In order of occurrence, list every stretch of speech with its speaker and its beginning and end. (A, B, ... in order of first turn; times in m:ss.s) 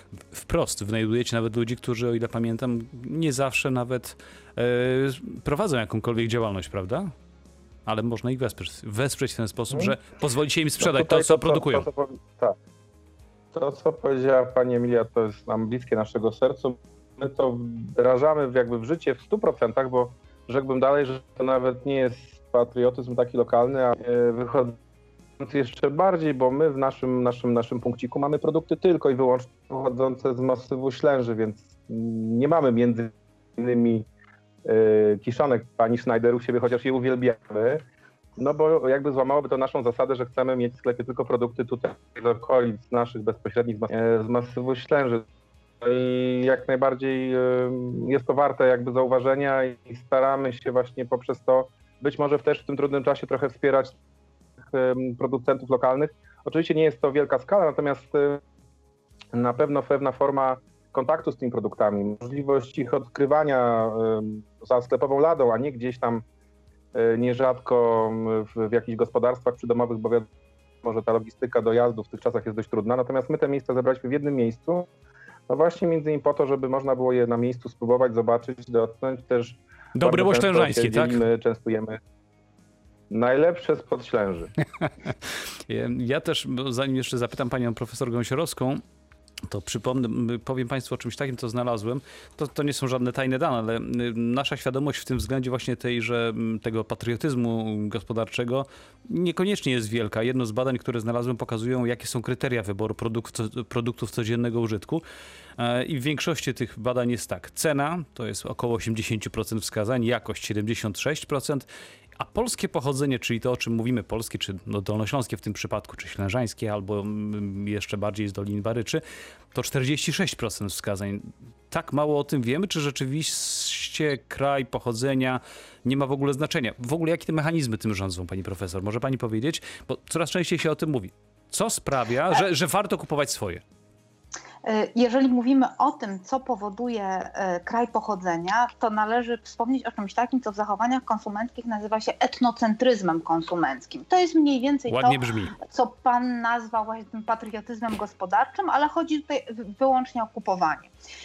0:00.3-0:07.1 A
0:07.8-0:11.9 A
0:10.8-0:12.6 B
0:13.5-0:24.8 B
0:25.4-0:34.1 B
0:34.6-0:37.8 B
0:38.4-0:45.2 B
0:45.8-0:54.0 B
0:54.7-0:58.4 B
0:59.3-1:06.2 B
1:06.9-1:10.3 B
1:10.8-1:14.9 B
1:15.5-1:22.0 B
1:20.0-1:21.2 A
1:23.1-1:24.5 B
1:24.8-1:25.1 A
1:25.7-1:28.8 A
1:29.5-1:45.0 A
1:45.6-2:13.6 A
2:14.6-2:30.9 C
2:24.9-2:25.6 A